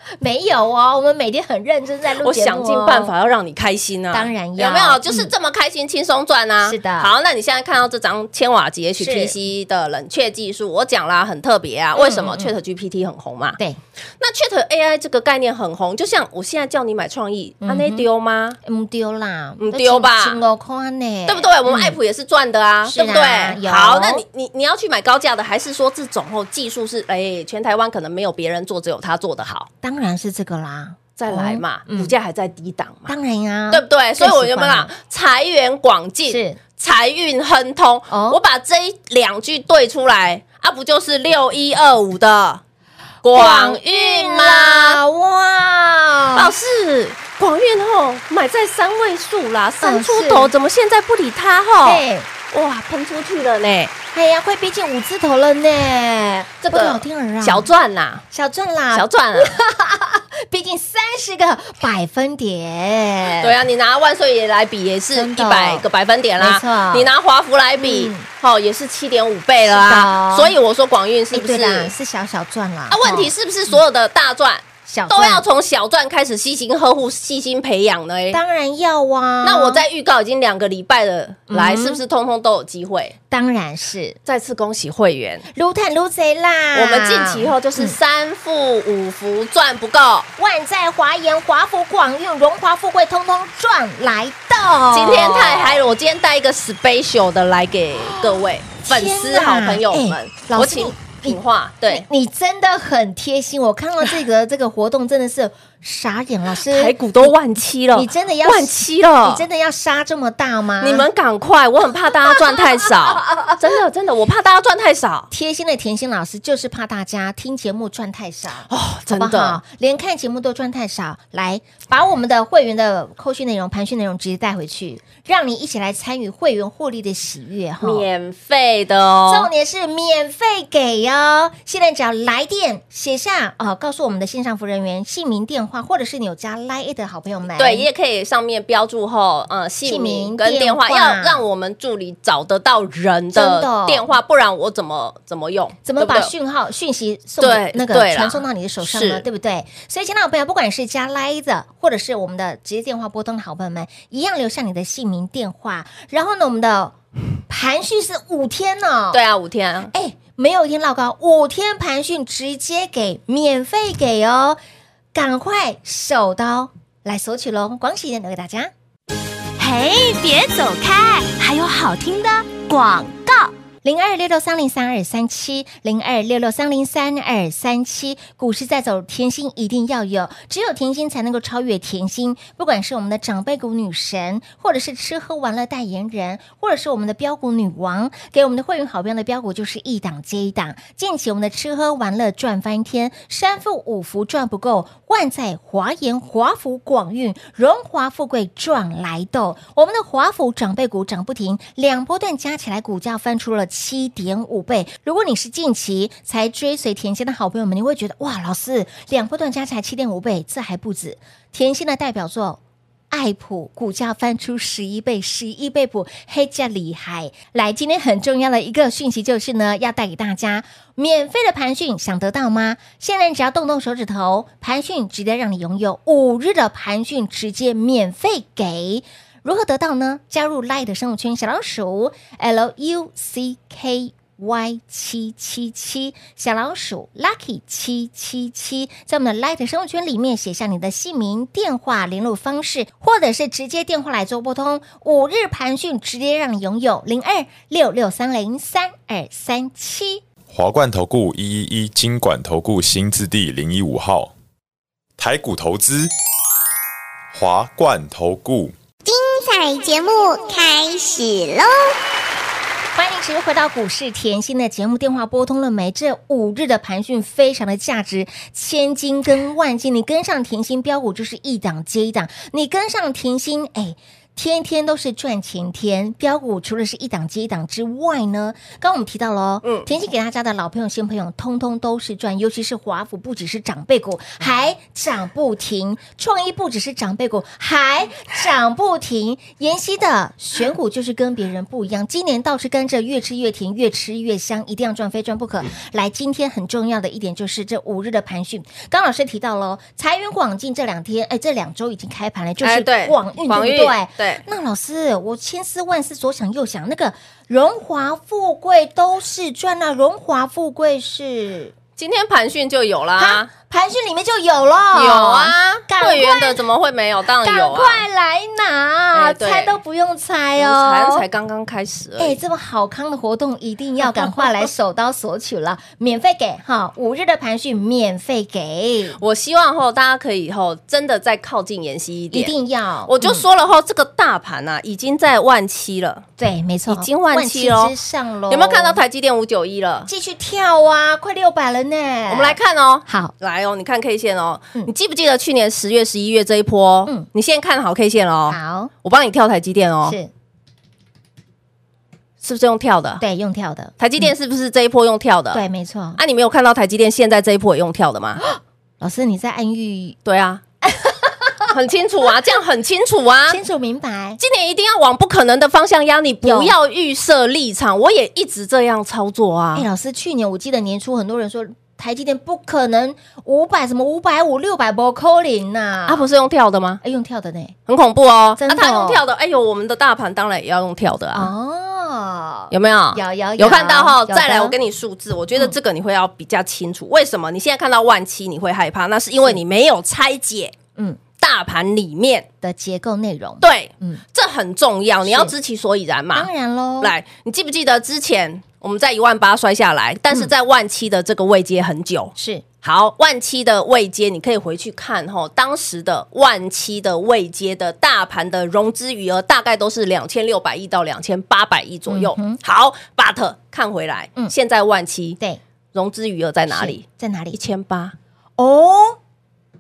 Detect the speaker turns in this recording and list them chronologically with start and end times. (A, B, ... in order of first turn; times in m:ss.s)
0:00.2-0:03.1 A
0:02.2-0:13.6 B
0:04.1-0:05.3 A
0:06.6-0:07.1 A
0:09.0-0:09.3 A
0:11.9-0:12.5 A
0:14.2-0:18.6 B
0:17.6-0:18.1 A
0:18.6-0:22.0 A
0:19.6-0:20.4 B
0:21.3-0:29.7 B
0:22.8-0:24.2 A
0:29.8-0:32.1 A
0:31.2-0:33.1 B
0:33.1-0:34.9 A
0:33.7-0:42.6 B
0:36.3-0:36.6 A
0:38.1-0:38.4 A
0:43.2-0:45.0 B
0:43.3-0:46.5 A
0:46.3-0:53.9 B
0:49.8-0:50.5 A
0:51.8-0:52.3 A
0:54.1-0:57.7 A
0:56.6-0:58.2 B
0:58.3-1:03.6 A
0:58.9-0:59.6 B
1:03.4-1:11.9 B
1:05.1-1:05.9 A
1:06.4-1:07.1 A
1:07.8-1:08.2 A
1:09.6-1:10.5 A
1:11.3-1:13.7 A
1:12.9-1:18.4 B
1:14.8-1:15.4 A
1:18.3-1:19.8 A
1:19.4-1:23.1 B
1:21.5-1:22.0 A
1:23.3-1:24.2 A
1:24.2-1:25.4 B
1:25.5-1:28.0 A
1:26.7-1:30.3 B
1:30.4-1:35.9 A
1:34.9-1:42.0 B
1:38.0-1:47.3 A
1:46.6-1:49.4 B
1:47.9-1:51.1 A
1:50.8-1:55.3 B
1:52.3-1:53.5 A
1:55.3-2:08.0 A
1:58.7-1:59.6 B
2:07.8-2:09.5 B
2:09.3-2:17.9 A
2:17.6-2:26.3 B
2:19.8-2:21.4 A
2:23.3-2:24.1 A
2:25.8-2:36.9 A
2:27.4-2:29.2 B
2:37.5-2:39.2 A
2:39.1-2:39.9 B
2:39.9-2:44.6 A
2:45.1-2:48.7 A
2:49.6-2:53.5 C
2:53.8-4:10.2 A
4:10.5-4:14.3 D
4:15.2-4:16.1 D
4:17.3-4:18.7 D
4:19.0-4:21.9 E
4:22.9-5:11.7 A
4:39.6-4:39.9 B
5:02.6-5:04.4 B
5:12.0-5:13.5 B
5:13.2-5:16.6 A
5:14.9-5:18.0 B
5:17.4-5:21.2 A
5:19.1-5:19.8 B
5:20.6-5:22.4 B
5:22.2-5:29.2 A
5:24.0-5:24.5 B
5:29.2-5:32.5 B
5:32.3-5:33.4 A
5:33.0-5:36.2 B
5:36.4-5:39.0 A
5:36.9-5:37.9 B
5:38.5-5:40.1 B
5:40.1-5:43.3 A
5:42.3-5:50.2 B
5:48.5-5:48.9 A
5:50.0-5:50.3 A
5:52.4-5:53.2 B
5:53.2-5:54.3 A
5:54.0-5:55.6 B
5:55.5-5:56.2 A
5:56.2-5:58.4 B
5:58.4-6:00.2 A
6:00.2-6:00.6 B
6:00.8-6:01.7 A
6:01.7-6:03.6 B
6:03.5-6:04.4 A
6:04.4-6:09.8 B
6:06.4-6:06.7 A
6:09.7-6:16.3 A
6:16.1-6:17.0 B
6:17.0-6:17.8 A
6:17.9-6:21.5 B
6:18.6-6:19.2 A
6:21.3-6:24.7 A
6:22.7-6:30.7 B
6:31.4-6:32.4 B
6:32.6-6:34.2 A
6:33.6-6:36.5 B
6:35.2-6:35.5 A
6:36.3-6:37.1 A
6:37.0-6:55.4 B
6:42.4-6:42.6 A
6:52.1-6:52.6 A
6:55.9-6:58.1 B
6:56.7-6:57.6 A
6:58.6-6:59.2 A